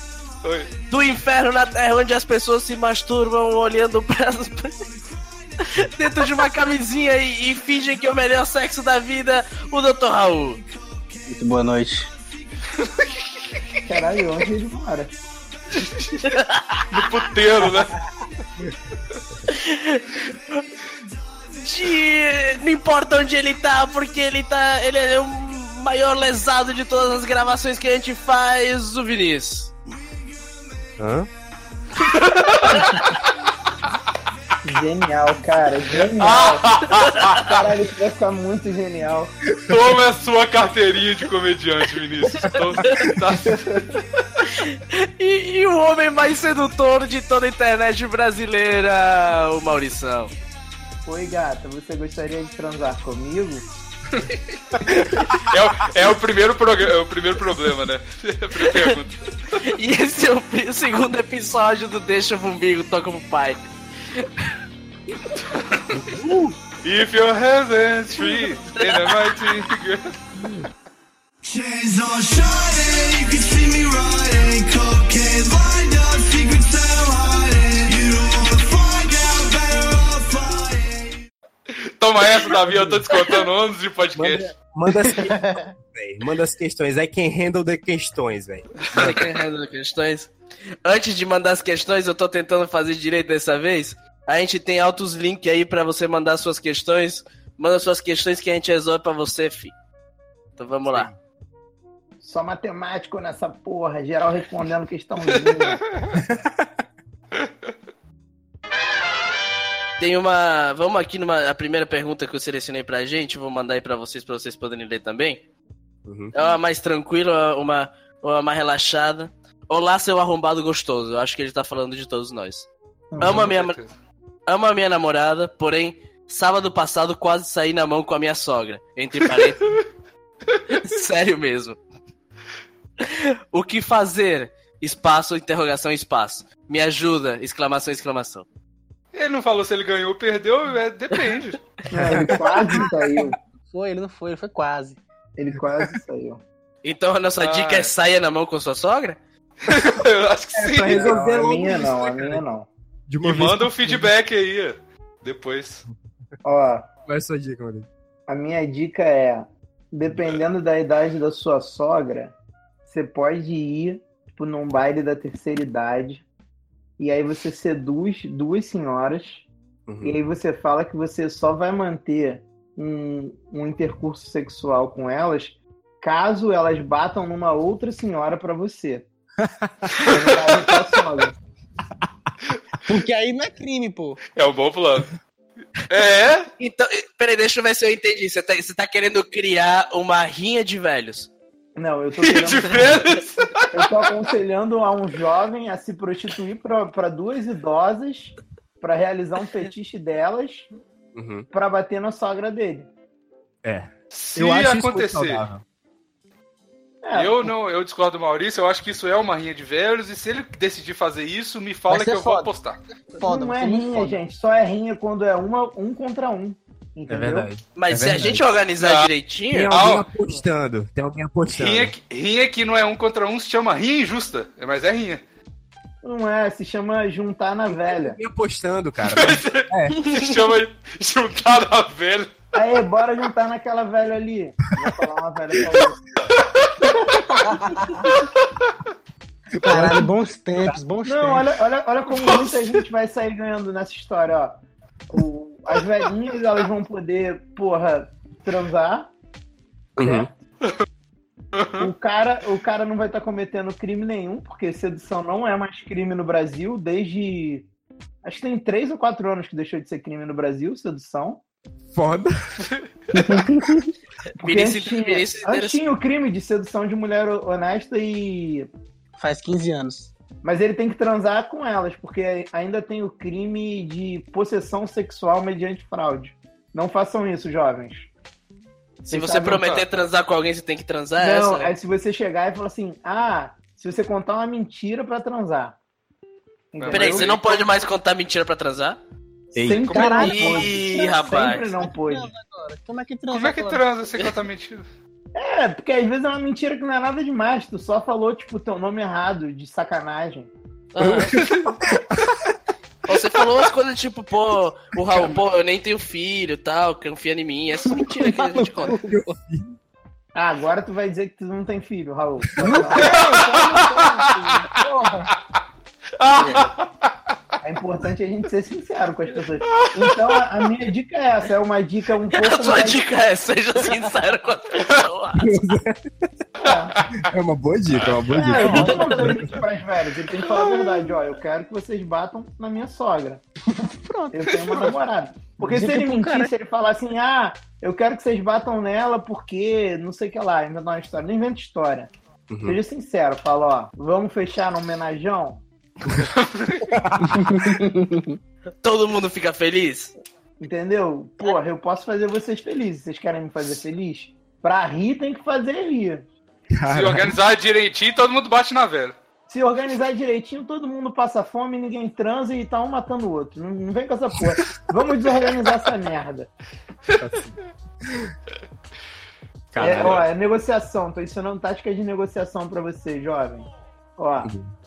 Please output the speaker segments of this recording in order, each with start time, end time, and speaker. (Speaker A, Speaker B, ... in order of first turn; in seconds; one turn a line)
Speaker A: 0.4-0.7
Speaker B: 0.9-4.8
Speaker B: 5.6-10.6
Speaker C: 11.3-12.1
Speaker D: 13.8-15.1
Speaker A: 15.8-16.2
Speaker B: 16.2-17.0
Speaker A: 16.9-18.0
Speaker B: 19.5-20.7
Speaker B: 21.5-29.7
Speaker E: 31.0-31.3
Speaker A: 32.0-33.1
Speaker B: 32.6-33.0
Speaker D: 34.6-39.3
Speaker A: 35.9-37.5
Speaker B: 36.9-37.4
Speaker A: 39.7-44.2
Speaker B: 42.4-43.1
Speaker D: 43.4-43.9
Speaker B: 44.4-50.3
Speaker D: 51.1-53.6
Speaker A: 54.1-59.2
Speaker B: 58.6-59.0
Speaker B: 59.6-63.6
Speaker A: 65.5-66.0
Speaker E: 66.0-66.5
Speaker A: 66.8-70.1
Speaker B: 68.3-69.3
Speaker C: 71.7-72.6
Speaker F: 72.2-81.0
Speaker A: 82.0-84.5
Speaker E: 82.7-83.0
Speaker E: 84.2-89.3
Speaker C: 85.0-85.7
Speaker B: 88.9-90.3
Speaker B: 90.8-99.8
Speaker B: 100.6-101.1
Speaker E: 100.9-101.2
Speaker D: 102.2-105.8
Speaker E: 106.2-106.7
Speaker B: 110.0-115.4
Speaker E: 116.1-116.3
Speaker B: 116.3-122.7
Speaker D: 123.1-123.5
Speaker B: 123.2-123.8
Speaker A: 123.2-123.9
Speaker B: 124.5-129.7
Speaker B: 130.7-131.8
Speaker B: 133.0-138.5
Speaker A: 139.1-141.7
Speaker D: 141.9-143.4
Speaker C: 142.8-145.0
Speaker D: 145.4-146.4
Speaker B: 146.8-149.2
Speaker A: 147.4-147.9
Speaker A: 149.6-151.2
Speaker E: 150.5-152.4
Speaker D: 150.8-152.7
Speaker E: 153.1-154.1
Speaker A: 153.2-155.8
Speaker D: 156.4-156.9
Speaker E: 157.1-157.9
Speaker D: 158.3-162.3
Speaker D: 162.9-166.2
Speaker D: 167.0-169.5
Speaker E: 169.9-170.2
Speaker D: 170.0-179.1
Speaker E: 179.4-179.9
Speaker D: 180.0-181.4
Speaker C: 182.9-184.2
Speaker A: 184.4-185.1
Speaker A: 185.9-186.5
Speaker B: 186.6-191.3
Speaker D: 191.8-193.2
Speaker A: 192.2-194.1
Speaker D: 193.7-200.7
Speaker E: 201.2-201.5
Speaker D: 201.5-202.9
Speaker E: 203.6-205.6
Speaker A: 204.1-205.4
Speaker D: 207.0-207.5
Speaker A: 207.1-212.8
Speaker C: 211.9-214.2
Speaker D: 213.2-217.5
Speaker E: 217.1-218.4
Speaker B: 217.8-219.8
Speaker A: 218.8-219.1
Speaker E: 219.5-221.9
Speaker A: 219.7-220.1
Speaker A: 221.5-225.2
Speaker D: 226.0-228.2
Speaker E: 227.7-230.0
Speaker A: 229.0-232.3
Speaker B: 230.0-230.3
Speaker D: 232.5-236.2
Speaker A: 236.4-236.8
Speaker D: 236.8-237.6
Speaker C: 237.6-238.0
Speaker E: 239.6-240.1
Speaker C: 239.6-241.5
Speaker D: 241.0-244.6
Speaker A: 242.1-242.8
Speaker D: 245.1-249.1
Speaker E: 250.0-250.3
Speaker D: 250.0-250.3
Speaker A: 251.6-251.9
Speaker D: 251.8-257.7
Speaker D: 258.2-261.4
Speaker E: 261.9-262.3
Speaker C: 263.1-263.9
Speaker D: 263.2-263.4
Speaker B: 264.4-265.8
Speaker D: 264.4-268.7
Speaker C: 269.2-270.1
Speaker D: 270.4-278.1
Speaker B: 279.0-281.7
Speaker D: 279.1-279.6
Speaker A: 279.6-279.9
Speaker D: 281.2-285.8
Speaker D: 286.7-287.4
Speaker A: 286.8-287.6
Speaker B: 286.9-289.0
Speaker E: 289.5-289.9
Speaker D: 289.6-292.3
Speaker A: 289.7-290.6
Speaker C: 290.0-291.0
Speaker B: 290.2-291.7
Speaker C: 291.8-293.8
Speaker A: 293.3-294.9
Speaker D: 295.4-300.5
Speaker B: 300.9-301.4
Speaker E: 301.0-302.4
Speaker A: 301.4-301.7
Speaker B: 303.1-309.0
Speaker C: 308.0-309.3
Speaker E: 308.9-309.7
Speaker D: 310.4-314.3
Speaker C: 312.6-315.3
Speaker A: 313.0-314.6
Speaker A: 316.2-317.1
Speaker C: 316.4-316.7
Speaker D: 317.6-323.1
Speaker A: 319.7-320.5
Speaker B: 322.3-325.5
Speaker E: 325.4-326.3
Speaker A: 326.6-327.3
Speaker D: 326.6-327.0
Speaker E: 327.2-329.6
Speaker D: 328.3-333.4
Speaker B: 328.6-329.0
Speaker C: 328.7-328.9
Speaker A: 330.4-331.2
Speaker C: 333.7-334.9
Speaker D: 334.3-342.1
Speaker C: 335.6-336.5
Speaker E: 342.5-342.8
Speaker D: 342.6-345.6
Speaker A: 346.2-346.9
Speaker E: 346.9-347.8
Speaker C: 347.3-348.4
Speaker B: 348.8-350.1
Speaker D: 350.6-356.3
Speaker E: 356.7-357.4
Speaker A: 356.9-359.1
Speaker D: 359.5-366.5
Speaker E: 367.2-368.3
Speaker E: 369.7-370.3
Speaker D: 369.8-374.5
Speaker A: 369.8-370.3
Speaker E: 374.4-374.7